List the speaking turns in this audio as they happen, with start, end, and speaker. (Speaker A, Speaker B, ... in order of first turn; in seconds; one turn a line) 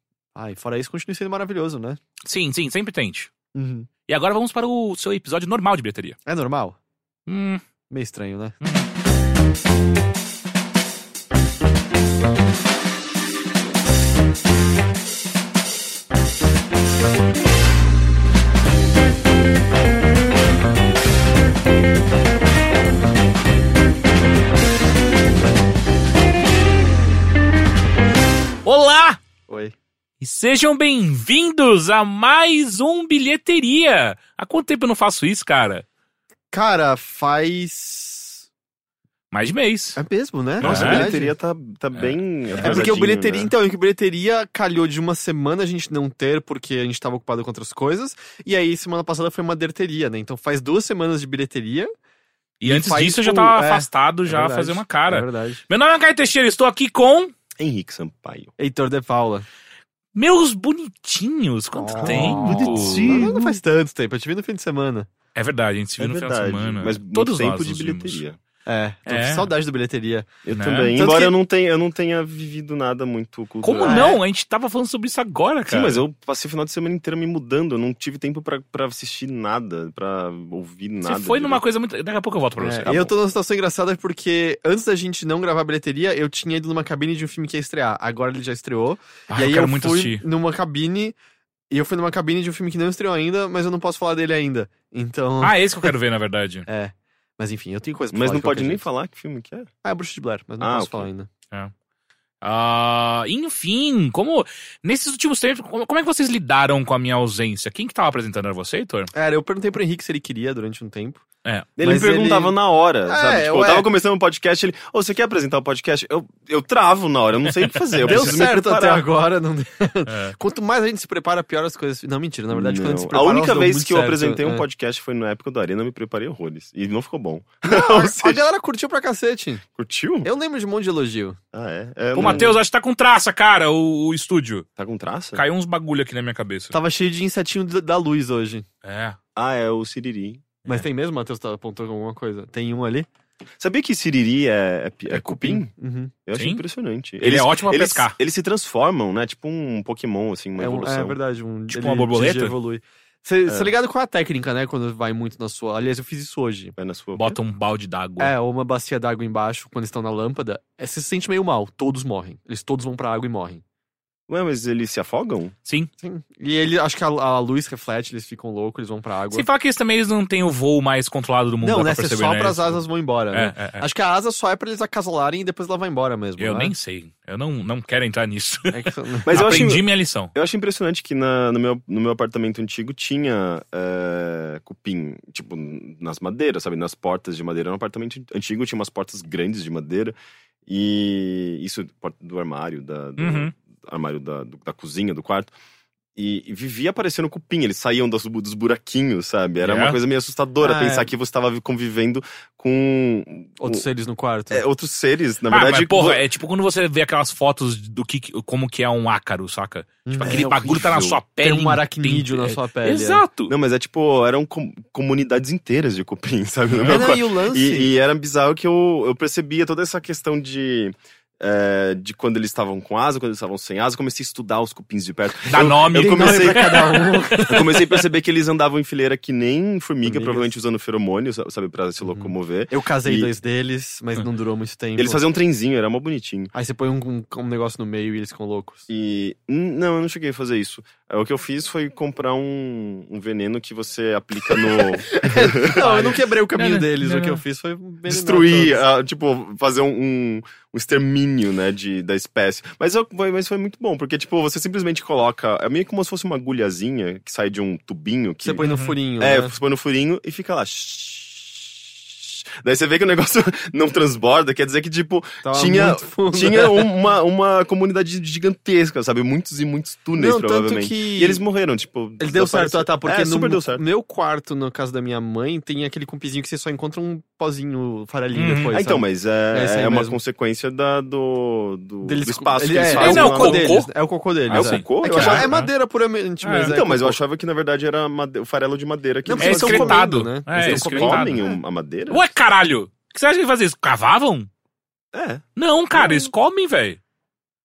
Speaker A: 0.3-2.0
Speaker B: 2.2-3.3
Speaker A: 3.5-3.9
Speaker B: 4.1-6.2
Speaker A: 6.2-6.8
Speaker B: 7.3-7.6
Speaker A: 7.9-8.6
Speaker B: 8.6-8.8
Speaker B: 28.6-29.2
Speaker A: 29.5-29.7
Speaker B: 30.2-35.8
Speaker A: 36.5-38.4
Speaker B: 39.3-40.0
Speaker A: 40.0-41.3
Speaker B: 40.6-41.0
Speaker C: 40.6-43.5
Speaker B: 41.9-42.8
Speaker A: 42.6-51.9
Speaker B: 52.6-57.3
Speaker A: 52.6-55.6
Speaker C: 57.6-58.5
Speaker A: 58.6-59.5
Speaker B: 60.1-63.4
Speaker A: 61.7-65.1
Speaker C: 62.0-63.4
Speaker B: 65.3-68.2
Speaker C: 66.0-68.4
Speaker A: 68.7-70.3
Speaker B: 69.0-69.5
Speaker C: 70.4-74.2
Speaker B: 70.5-70.9
Speaker A: 70.9-71.3
Speaker B: 73.6-76.0
Speaker A: 73.8-74.2
Speaker C: 75.7-81.6
Speaker B: 81.0-82.9
Speaker A: 82.6-91.1
Speaker C: 82.8-83.1
Speaker B: 89.3-90.2
Speaker A: 91.7-95.9
Speaker B: 95.4-96.7
Speaker A: 96.7-98.8
Speaker C: 98.1-99.7
Speaker A: 99.8-101.3
Speaker C: 100.6-101.1
Speaker B: 102.4-109.1
Speaker A: 109.1-111.2
Speaker C: 111.8-119.0
Speaker A: 111.8-112.5
Speaker A: 113.0-113.9
Speaker B: 117.9-118.3
Speaker A: 118.1-124.6
Speaker B: 120.1-120.3
Speaker C: 122.5-128.4
Speaker A: 127.7-129.6
Speaker C: 129.8-130.3
Speaker A: 130.2-131.4
Speaker C: 131.5-132.5
Speaker B: 132.1-134.6
Speaker A: 132.2-132.5
Speaker C: 134.8-135.4
Speaker B: 135.3-136.7
Speaker A: 136.7-138.7
Speaker B: 138.8-139.2
Speaker C: 139.3-140.6
Speaker A: 140.7-143.1
Speaker C: 143.6-145.7
Speaker A: 145.1-146.1
Speaker C: 146.2-151.2
Speaker B: 146.3-146.6
Speaker B: 147.2-148.2
Speaker A: 150.6-156.8
Speaker B: 151.7-152.6
Speaker C: 153.5-153.7
Speaker C: 156.8-157.4
Speaker B: 157.2-158.3
Speaker A: 158.2-163.6
Speaker C: 164.3-165.5
Speaker A: 166.0-169.5
Speaker B: 169.3-173.8
Speaker A: 171.6-176.7
Speaker B: 176.4-180.3
Speaker A: 178.7-179.3
Speaker C: 179.2-195.5
Speaker B: 193.2-193.5
Speaker C: 196.2-203.8
Speaker B: 199.6-200.0
Speaker A: 200.6-201.1
Speaker A: 203.6-204.6
Speaker C: 204.5-206.2
Speaker B: 205.5-213.5
Speaker A: 210.1-213.2
Speaker C: 210.2-211.2
Speaker C: 213.5-233.3
Speaker B: 216.7-217.0
Speaker A: 216.8-217.9
Speaker B: 225.5-227.5
Speaker A: 225.6-227.8
Speaker A: 230.0-230.5
Speaker A: 232.0-235.2
Speaker C: 234.9-236.5
Speaker A: 236.5-238.9
Speaker C: 238.9-246.2
Speaker A: 244.6-248.8
Speaker B: 246.5-247.4
Speaker C: 248.1-273.8
Speaker A: 258.4-259.5
Speaker A: 265.4-266.9
Speaker A: 270.1-271.4
Speaker A: 272.2-280.2
Speaker B: 278.3-278.8
Speaker C: 278.7-283.7
Speaker A: 282.0-287.2
Speaker B: 282.9-283.9
Speaker C: 284.5-285.5
Speaker B: 284.5-285.7
Speaker B: 286.4-286.8
Speaker C: 286.6-292.3
Speaker A: 289.2-291.4
Speaker B: 289.4-291.5
Speaker B: 292.1-294.5
Speaker C: 295.1-296.3
Speaker B: 295.6-297.0